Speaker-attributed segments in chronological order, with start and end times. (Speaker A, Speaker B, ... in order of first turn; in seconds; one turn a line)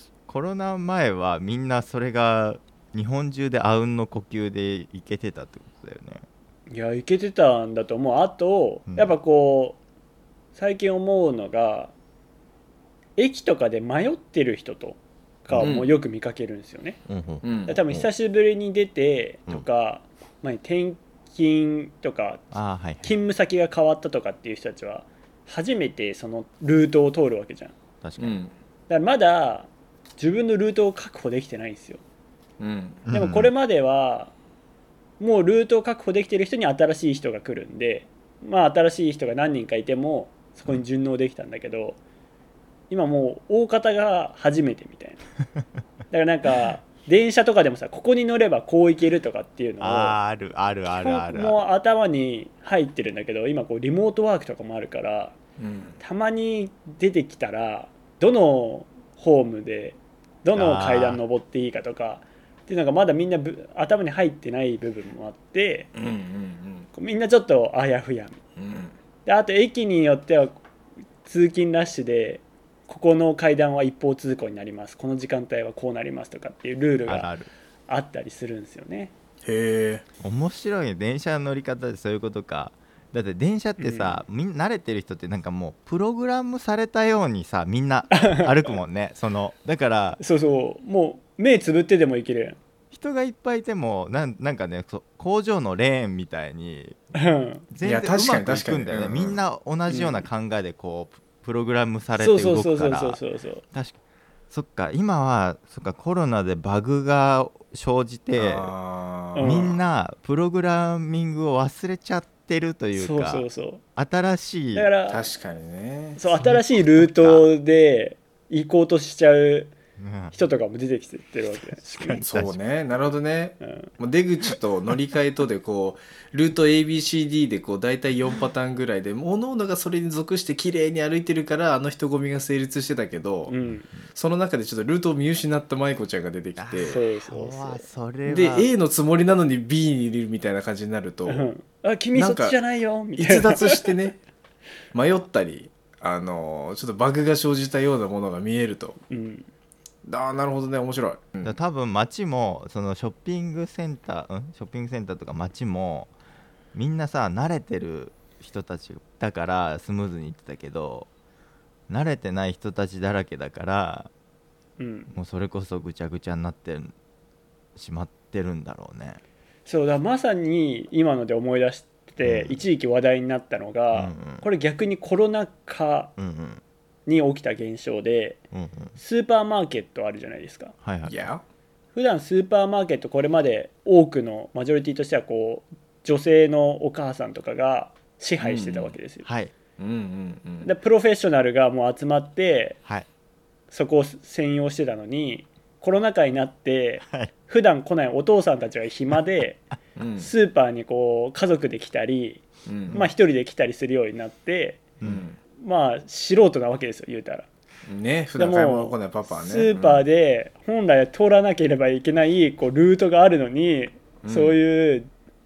Speaker A: 0.2-6.2
Speaker B: 6.7-9.8
Speaker B: 10.6-11.9
Speaker B: 13.2-17.0
Speaker A: 15.5-15.8
Speaker C: 15.6-15.9
Speaker A: 17.1-18.1
Speaker C: 17.4-17.8
Speaker B: 17.7-22.5
Speaker A: 22.5-23.1
Speaker B: 23.0-27.8
Speaker A: 28.0-28.4
Speaker C: 28.2-28.5
Speaker B: 28.9-32.0
Speaker C: 32.6-33.1
Speaker A: 33.1-33.5
Speaker B: 33.1-34.3
Speaker B: 35.2-42.0
Speaker B: 42.9-45.2
Speaker B: 46.1-50.2
Speaker A: 49.8-51.6
Speaker B: 50.9-55.4
Speaker C: 55.6-56.0
Speaker B: 56.0-65.9
Speaker A: 60.5-61.2
Speaker C: 66.0-66.9
Speaker B: 67.0-68.4
Speaker C: 68.6-69.0
Speaker B: 69.3-70.6
Speaker B: 71.2-77.3
Speaker A: 77.1-77.5
Speaker B: 77.9-79.1
Speaker C: 79.4-80.0
Speaker A: 80.2-90.2
Speaker B: 83.8-84.2
Speaker B: 88.1-88.8
Speaker B: 90.2-92.6
Speaker A: 92.9-97.1
Speaker B: 97.2-97.7
Speaker A: 97.7-103.2
Speaker C: 97.8-99.4
Speaker B: 99.9-100.3
Speaker B: 102.2-103.6
Speaker A: 103.7-104.0
Speaker A: 104.5-108.7
Speaker C: 108.4-109.7
Speaker B: 109.3-109.8
Speaker A: 109.4-114.9
Speaker B: 113.0-113.8
Speaker B: 114.8-115.3
Speaker C: 115.1-116.2
Speaker B: 116.2-119.7
Speaker A: 116.4-117.5
Speaker A: 120.0-120.4
Speaker B: 120.3-122.2
Speaker A: 121.8-122.6
Speaker C: 122.2-133.5
Speaker B: 123.6-123.9
Speaker B: 133.5-133.9
Speaker C: 134.1-137.0
Speaker A: 136.6-138.7
Speaker B: 136.8-137.8
Speaker C: 138.3-141.5
Speaker B: 141.3-144.0
Speaker C: 142.1-142.6
Speaker C: 143.2-144.2
Speaker C: 144.9-149.0
Speaker B: 149.1-149.5
Speaker C: 150.1-151.6
Speaker A: 151.4-156.1
Speaker A: 156.7-161.1
Speaker A: 161.9-164.1
Speaker B: 164.8-165.1
Speaker A: 165.1-166.9
Speaker A: 167.8-169.2
Speaker B: 169.7-176.1
Speaker A: 172.2-172.6
Speaker A: 173.9-174.5
Speaker A: 176.2-176.6
Speaker B: 177.1-178.4
Speaker A: 178.5-179.0
Speaker B: 179.0-180.8
Speaker A: 180.8-181.3
Speaker C: 181.1-181.4
Speaker B: 181.9-189.3
Speaker C: 188.4-188.9
Speaker A: 189.2-189.5
Speaker C: 189.8-190.7
Speaker B: 190.6-192.8
Speaker B: 193.7-199.6
Speaker A: 197.1-197.3
Speaker C: 200.0-200.3
Speaker B: 200.2-204.9
Speaker C: 202.7-203.1
Speaker A: 205.0-205.3
Speaker C: 205.0-205.4
Speaker B: 205.6-207.5
Speaker C: 207.9-210.1
Speaker B: 208.4-215.1
Speaker C: 214.2-214.6